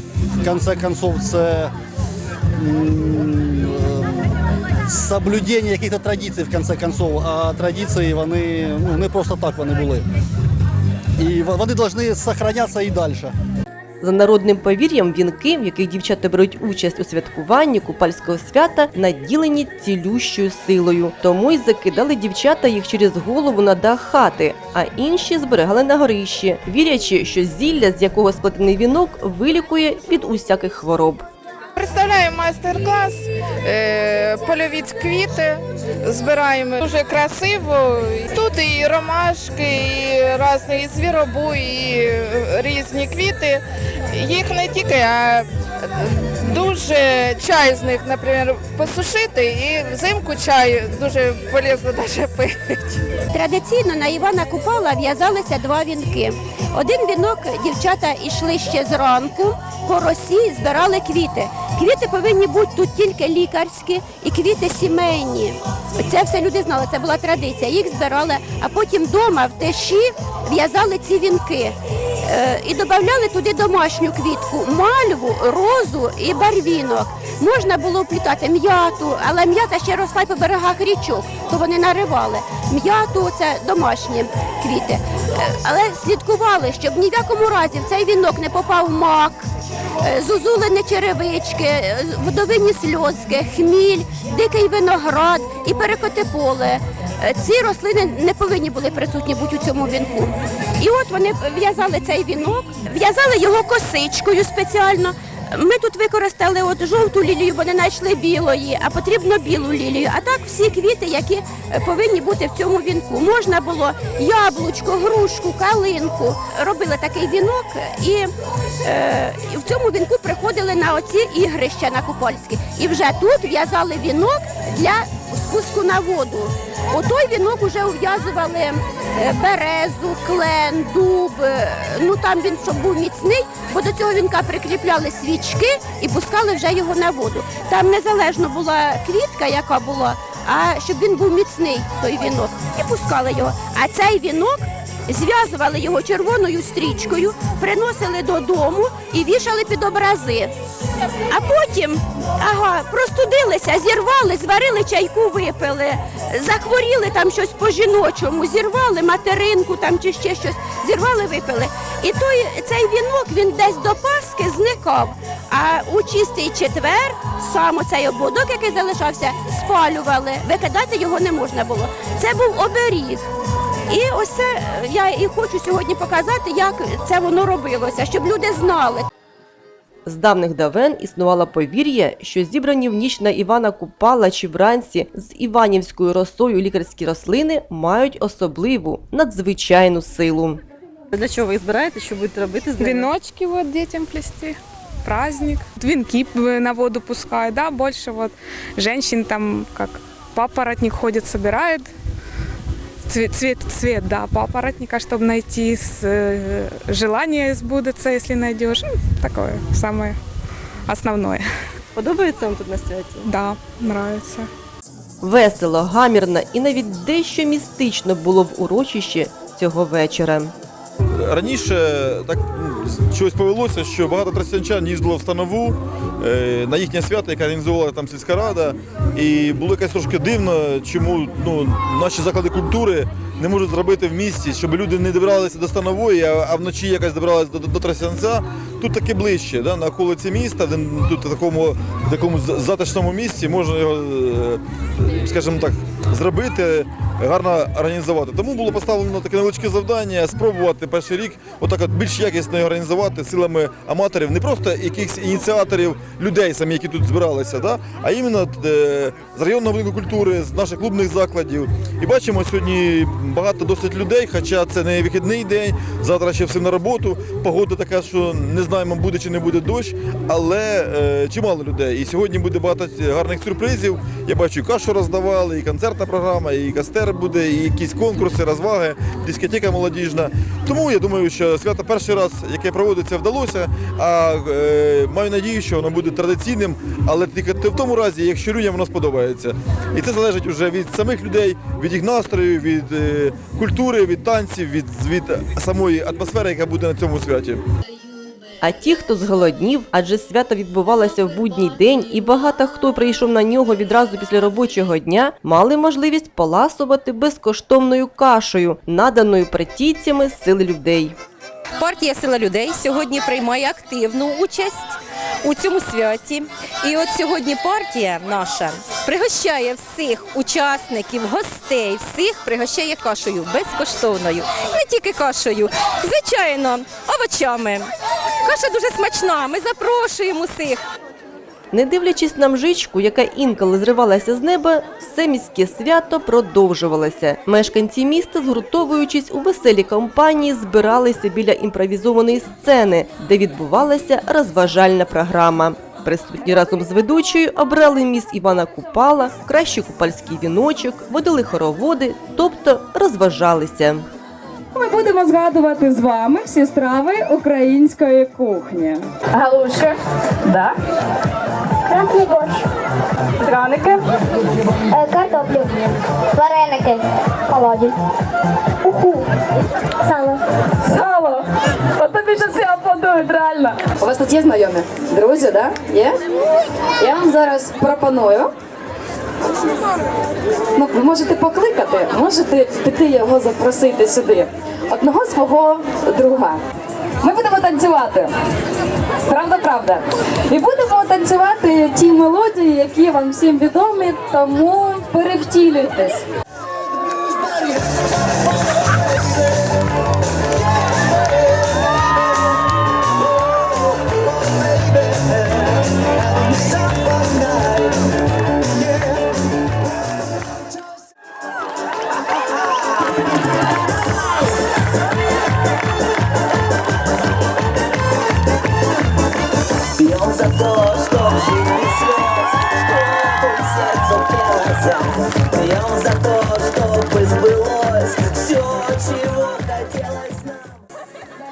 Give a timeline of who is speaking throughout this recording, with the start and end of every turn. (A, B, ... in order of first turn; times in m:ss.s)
0:00.4-0:01.7 A
0:02.6-0:04.4 A
0:04.9-0:10.1 A
0:11.2-0:13.3 A
0:14.0-0:31.2 B
0:31.8-0:45.5 C
0:46.0-0:53.1 C
0:53.3-1:29.5 D
1:30.0-1:58.3 D
1:58.8-2:30.5 D
2:31.3-2:53.3 D
2:53.9-2:59.0 D
3:00.0-3:10.6 B
3:11.1-3:13.1 E
3:12.8-3:21.9 F
3:23.1-3:30.2 F
3:30.9-3:31.4 F
3:32.0-3:33.3 E
3:33.3-3:34.5 F
3:35.2-3:40.5 B
3:41.1-4:57.6 G
4:58.6-5:11.2 B
5:11.9-5:13.2 H
5:15.5-5:16.2 H
5:16.9-5:17.7 H
5:18.3-5:19.8 H
5:20.6-5:21.8 H
5:22.6-5:24.2 H
5:24.7-5:27.9 H
5:28.5-5:30.8 H
5:31.7-5:54.1 B
5:54.8-5:59.7 I
6:00.4-6:00.7 I
6:01.9-6:02.7 J
6:03.4-6:04.0 I
6:04.9-6:05.8 J
6:07.5-6:07.9 J
6:08.8-6:09.2 I
6:10.0-6:10.4 J
6:10.8-6:16.2 I
6:17.0-6:18.5 I
6:20.8-6:26.6 I
6:27.2-6:28.3 I
6:29.2-6:36.2 I
6:36.9-6:39.6 K
6:40.9-6:42.2 K
6:43.2-6:48.1 K
6:48.8-6:49.3 K
7:00.0-7:10.7 K